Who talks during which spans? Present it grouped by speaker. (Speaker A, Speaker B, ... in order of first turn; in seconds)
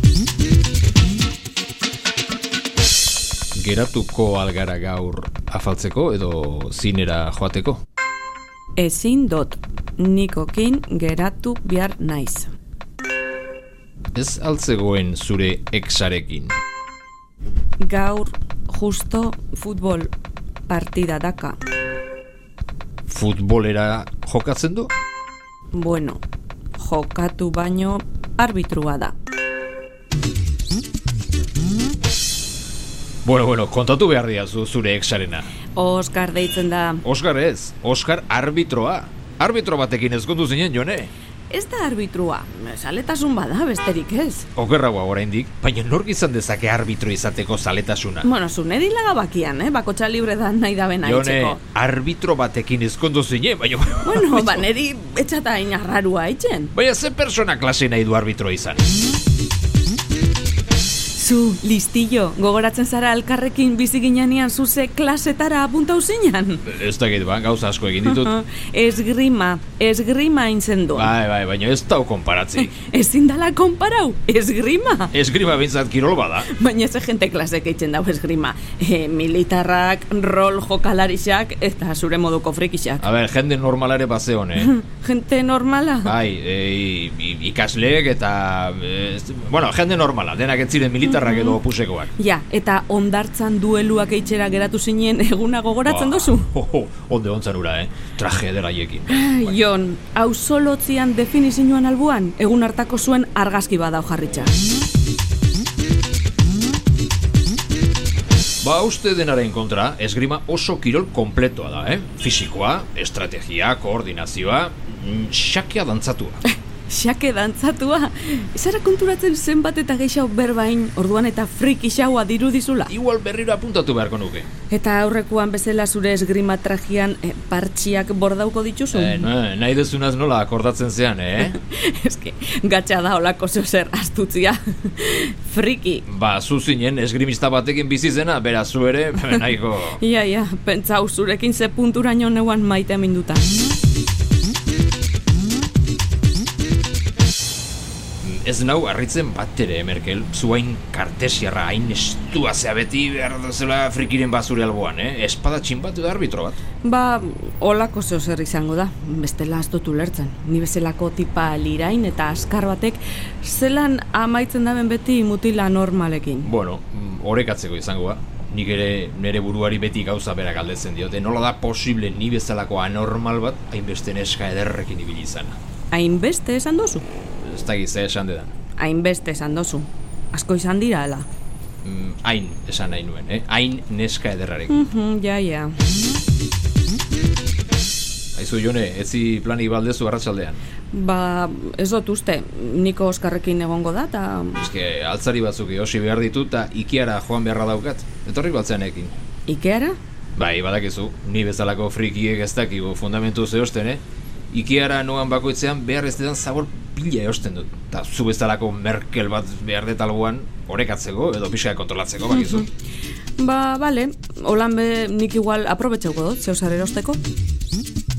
Speaker A: 3.5-7.8, 14.1-16.6, 23.1-24.9, 33.2-35.5, 37.0-41.1, 44.5-48.3, 51.0-54.6, 56.7-58.9, 66.6-68.3, 70.9-72.7, 75.1-76.5, 83.0-84.7, 86.0-92.1, 95.8-99.5, 108.6-116.4, 122.9-124.5, 128.9-131.6, 136.1-140.0, 148.2-156.6, 166.4-175.6, 177.4-178.5, 181.8-184.8, 188.3-190.6, 194.6-199.1, 200.3-212.7
Speaker B: 8.8-12.5, 17.8-20.1, 20.7-21.6, 25.7-26.2, 26.8-29.1, 35.7-37.0, 41.5-44.5, 48.2-51.6, 54.0-56.7, 61.1-66.6, 68.0-71.1, 72.6-75.1, 76.4-83.0, 84.6-86.2, 91.0-91.6, 92.2-96.5, 99.1-104.5, 116.5-122.9, 124.7-129.3, 131.5-136.0, 140.0-143.4, 156.8-166.5, 175.9-177.1, 178.8-181.3, 184.7-185.8, 190.9-194.6, 199.5-200.0, 212.3-212.7, 213.4-217.2